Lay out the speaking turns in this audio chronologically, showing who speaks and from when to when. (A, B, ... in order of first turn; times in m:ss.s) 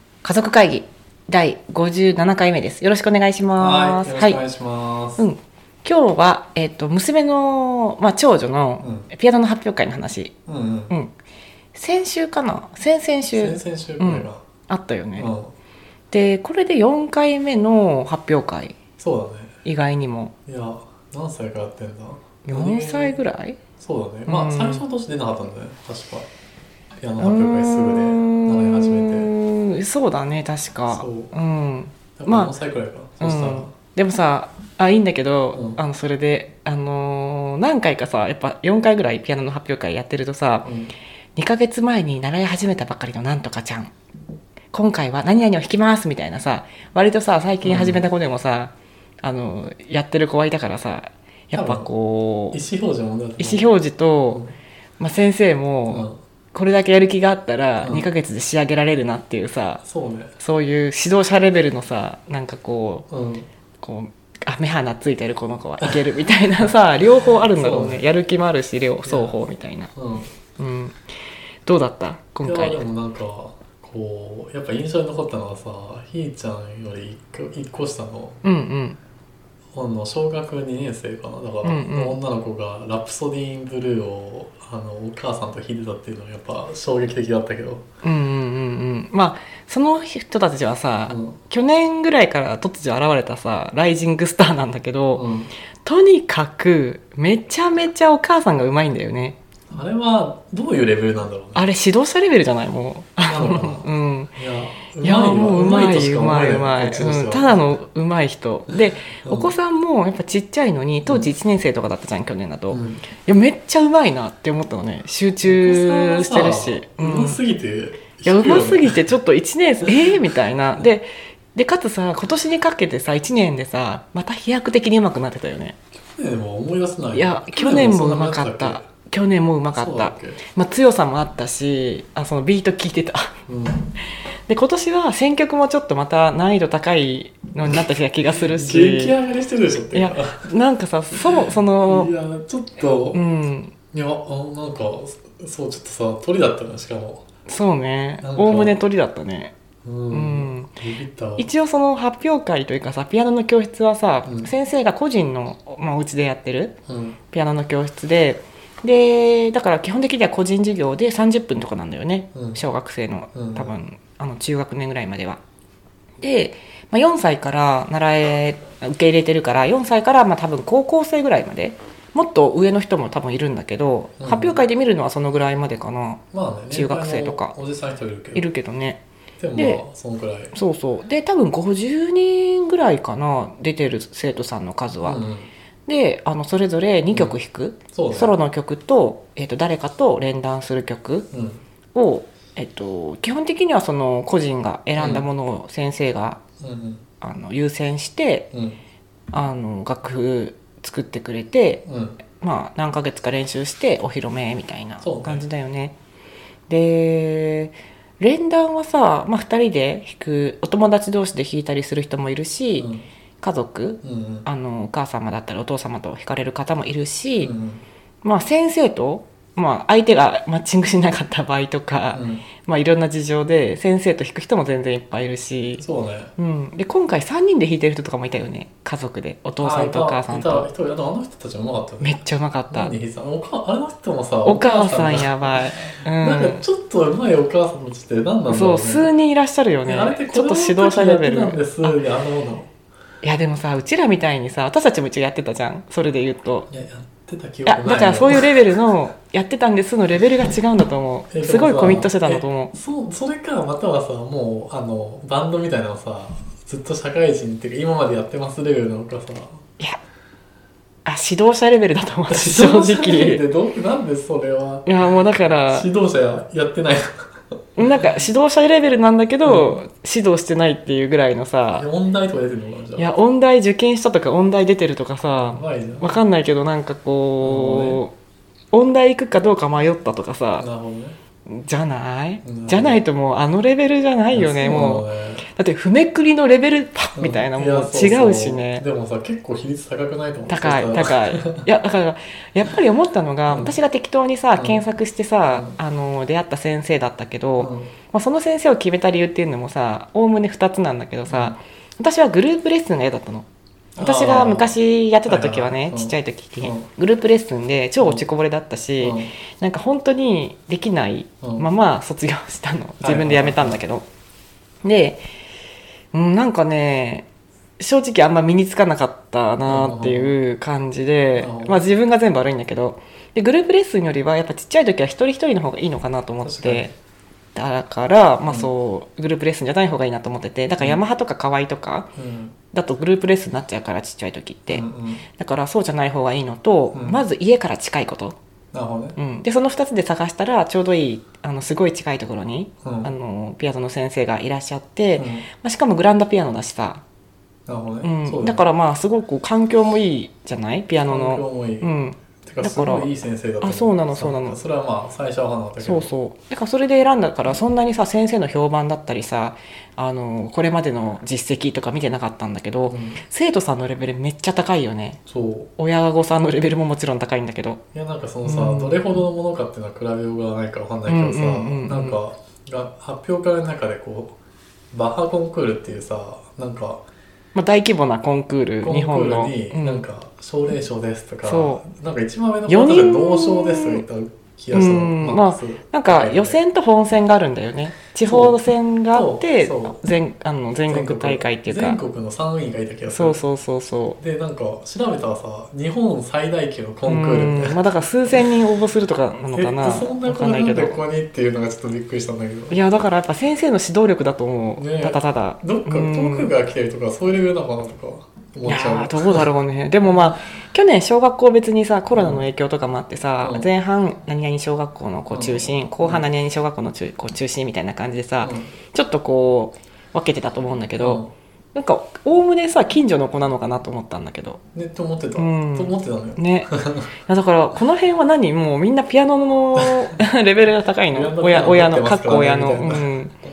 0:00.2-0:04.4 A
0:03.6-0:05.2 B
0:05.2-0:10.3 A
0:08.8-0:09.1 B
0:10.5-0:10.9 B
0:11.8-0:15.3 A
0:13.3-0:14.4 B
0:15.2-0:15.5 B
0:16.1-0:18.8 A
0:19.0-0:19.6 B
0:19.6-0:20.3 A
0:20.5-0:23.2 B
0:22.4-0:23.6 A
0:23.8-0:26.3 B
0:24.3-0:24.8 A
0:27.0-0:29.3 B
0:27.2-0:32.5 A
0:30.9-0:31.3 B
0:32.2-0:33.7 B
0:33.2-0:40.7 A
0:35.5-0:35.8 B
0:40.6-0:40.9 B
0:41.4-0:43.9 A
0:44.7-0:52.6 A
0:47.6-0:48.0 B
0:51.6-0:51.9 B
0:52.5-0:53.7 B
0:53.4-0:54.4 A
0:54.3-0:54.6 B
0:55.0-0:59.8 A
0:55.9-0:56.2 B
0:57.8-0:58.1 B
0:59.8-1:00.4 B
1:00.4-1:03.1 A
1:03.1-1:03.5 B
1:03.8-1:09.9 A
1:07.4-1:08.0 B
1:09.0-1:09.4 B
1:10.0-1:10.3 B
1:10.6-1:11.0 A
1:11.7-1:12.8 A
1:12.4-1:18.4 B
1:18.4-1:19.0 A
1:19.7-1:27.9 B
1:21.6-1:22.2 A
1:28.0-1:35.3 A
1:31.1-1:31.4 B
1:35.2-1:35.5 B
1:35.8-1:39.4 A
1:39.7-1:41.7 B
1:41.6-1:44.3 A
1:43.3-1:47.7 B
1:45.0-1:57.4 A
1:49.2-1:49.5 B
1:52.7-1:53.0 B
1:55.4-1:59.1 B
1:58.2-2:05.8 A
2:06.1-2:08.8 B
2:07.1-2:13.3 A
2:09.7-2:10.4 B
2:13.5-2:13.9 B
2:14.5-2:19.2 A
2:17.7-2:20.5 B
2:19.9-2:22.1 A
2:21.2-2:23.2 B
2:23.1-2:23.7 A
2:23.9-2:27.2 B
2:27.5-2:29.5 A
2:28.2-2:28.8 B
2:29.8-2:31.5 B
2:30.1-2:30.7 A
2:31.4-2:36.8 A
2:34.2-2:34.5 B
2:36.9-2:37.2 B
2:37.3-2:45.4 A
2:42.3-2:42.6 B
2:43.3-2:43.7 B
2:46.2-2:57.6 A
2:54.2-2:54.6 B
2:56.3-2:58.5 B
2:58.4-2:59.0 A
2:59.4-3:00.5 B
2:59.6-2:59.8 A
3:00.5-3:05.2 A
3:05.0-3:05.5 B
3:05.9-3:11.3 A
3:07.9-3:08.3 B
3:11.3-3:11.6 B
3:11.9-3:16.4 A
3:15.0-3:15.3 B
3:16.6-3:17.1 B
3:17.2-3:18.5 A
3:18.5-3:18.8 B
3:19.3-3:21.8 A
3:21.8-3:22.2 B
3:22.4-3:26.0 A
3:25.0-3:25.4 B
3:26.7-3:32.9 A
3:32.8-3:33.0 B
3:33.4-3:37.5 A
3:34.0-3:34.5 B
3:37.4-3:37.8 B
3:38.2-3:45.9 A
3:42.1-3:42.5 B
3:45.8-3:46.3 B
3:46.4-3:50.7 A
3:49.6-3:59.1 B
3:52.0-3:52.9 A
3:54.4-3:56.6 A
3:58.5-4:02.0 A
3:59.9-4:02.7 B
4:03.2-4:06.7 A
4:06.7-4:08.6 B
4:07.7-4:12.7 A
4:11.3-4:19.6 B
4:21.0-4:23.4 A
4:22.3-4:27.1 B
4:24.8-4:25.9 A
4:27.8-4:31.8 A
4:29.4-4:29.8 B
4:31.8-4:33.2 B
4:33.0-4:38.1 A
4:35.3-4:36.2 B
4:37.4-4:38.0 B
4:38.7-4:40.7 A
4:40.6-4:41.2 B
4:41.5-4:48.8 A
4:42.4-4:43.0 B
4:44.3-4:45.4 B
4:47.2-4:51.7 B
4:50.5-5:03.5 A
4:53.5-4:53.8 B
4:54.6-4:54.8 B
4:55.5-4:55.8 B
4:57.6-4:57.9 B
5:01.3-5:01.6 B
5:04.0-5:06.9 B
5:04.0-5:14.1 A
5:09.0-5:09.3 B
5:11.4-5:11.7 B
5:13.0-5:13.8 B
5:14.8-5:15.2 A
5:16.1-5:17.3 A
5:17.8-5:26.9 A
5:19.6-5:20.4 B
5:21.4-5:21.8 B
5:26.4-5:26.9 B
5:27.6-5:32.1 A
5:32.2-5:32.6 B
5:32.7-5:34.9 A
5:34.7-5:35.2 B
5:35.4-5:38.4 A
5:36.9-5:37.2 B
5:38.7-5:39.2 B
5:39.2-5:47.0 A
5:42.8-5:43.1 B
5:45.2-5:45.5 B
5:47.7-5:48.6 B
5:48.0-5:53.1 A
5:51.0-5:56.1 B
5:53.6-5:54.6 A
5:55.8-6:05.2 A
6:02.9-6:03.2 B
6:05.3-6:05.7 B
6:05.8-6:07.8 A
6:07.9-6:14.4 B
6:08.4-6:09.0 A
6:11.1-6:12.2 A
6:14.9-6:17.0 B
6:17.6-6:20.1 A
6:18.8-6:26.6 B
6:21.4-6:21.8 A
6:22.7-6:24.0 A
6:24.7-6:32.0 A
6:28.2-6:28.6 B
6:29.1-6:30.0 B
6:30.9-6:33.4 B
6:33.1-6:34.2 A
6:34.2-6:38.4 B
6:37.1-6:41.0 A
6:39.5-6:42.8 B
6:42.7-6:46.5 A
6:44.8-6:49.5 B
6:48.6-7:01.2 A
6:50.0-6:50.3 B
6:52.1-6:52.5 B
6:53.4-6:53.7 B
6:55.3-6:56.3 B
6:58.4-6:58.7 B
7:01.0-7:01.3 B
7:01.7-7:04.6 A
7:04.8-7:07.1 B
7:05.4-7:06.7 A
7:07.3-7:13.3 A
7:09.8-7:10.1 B
7:11.1-7:13.1 B